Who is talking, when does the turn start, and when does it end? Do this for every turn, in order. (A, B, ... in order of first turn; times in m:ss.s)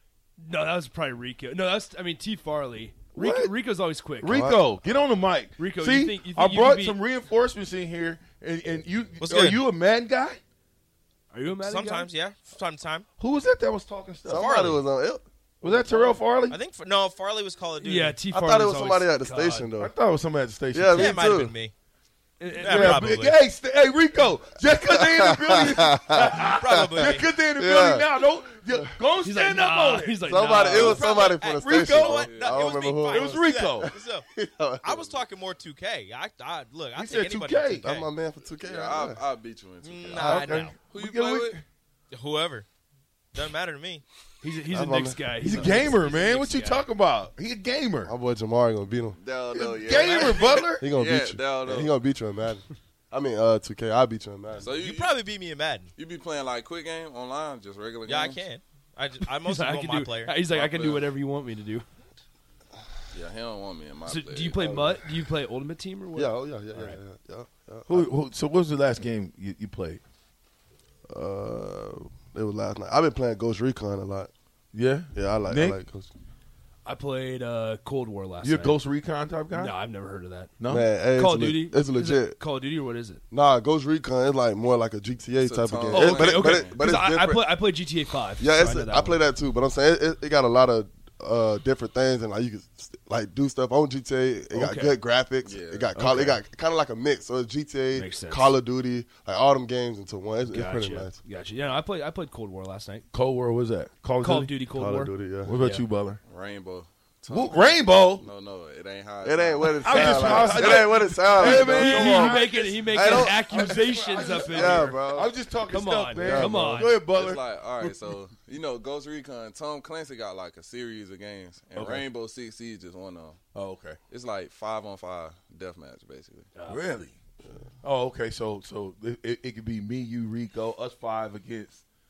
0:00.4-0:04.3 A
0:03.1-0:03.5 B
0:04.2-0:10.4 B
0:04.3-0:04.7 C
0:05.6-0:07.0 A
0:09.2-0:09.6 D
0:11.3-0:12.1 A
0:11.6-0:13.0 D
0:13.2-0:14.7 B
0:14.2-0:16.2 C
0:14.3-0:14.8 D
0:15.6-0:16.6 B
0:16.5-0:18.2 D
0:17.8-0:19.7 A
0:18.3-0:19.9 C
0:19.7-0:21.2 B
0:20.7-0:21.5 C
0:20.9-0:21.7 D
0:22.4-0:23.1 A
0:22.5-0:23.4 D
0:22.6-0:32.2 B
0:24.8-0:26.3 C
0:26.6-0:27.3 D
0:27.6-0:28.1 C
0:29.2-0:31.0 A
0:30.2-0:35.1 C
0:30.7-0:34.2 D
0:32.1-0:32.7 E
0:33.1-0:33.9 B
0:34.8-0:38.1 D
0:37.0-0:37.8 B
0:37.8-0:39.2 C
0:38.6-0:41.6 E
0:39.8-0:40.8 D
0:40.2-0:41.6 B
0:40.4-0:40.7 C
0:42.1-0:42.6 D
0:43.3-0:44.0 D
0:44.4-0:46.9 A
0:44.7-0:45.9 C
0:45.4-0:48.1 B
0:48.0-0:49.2 C
0:49.2-0:52.0 E
0:49.5-0:50.9 B
0:50.0-0:50.4 D
0:50.8-0:54.7 C
0:54.5-0:55.1 E
0:54.8-0:55.9 D
0:56.0-0:58.4 E
0:58.0-1:00.4 D
0:59.3-1:01.8 A
1:00.5-1:01.1 E
1:03.1-1:04.7 E
1:04.1-1:07.0 A
1:04.6-1:05.0 C
1:06.1-1:08.1 C
1:07.9-1:10.0 B
1:11.1-1:14.3 C
1:14.7-1:15.8 B
1:15.1-1:16.1 C
1:16.8-1:18.8 A
1:18.4-1:19.7 B
1:19.5-1:23.2 A
1:20.6-1:20.9 B
1:20.7-1:22.4 C
1:23.3-1:27.5 C
1:25.4-1:26.8 E
1:25.9-1:29.2 A
1:28.4-1:41.2 C
1:34.5-1:35.0 A
1:35.4-1:36.4 E
1:37.9-1:38.5 A
1:40.5-1:43.0 A
1:43.1-1:44.5 B
1:44.2-1:45.8 A
1:44.7-1:45.5 C
1:45.4-1:46.2 B
1:46.2-1:51.1 E
1:47.3-1:48.3 B
1:49.2-1:55.3 C
1:49.8-1:57.9 B
1:50.3-1:50.6 A
1:51.4-1:55.0 A
1:55.7-1:56.9 A
1:56.2-1:56.9 C
1:57.1-2:03.4 E
2:01.7-2:02.1 B
2:03.5-2:04.0 B
2:04.1-2:06.5 E
2:06.5-2:06.8 A
2:06.7-2:07.2 B
2:07.8-2:11.8 B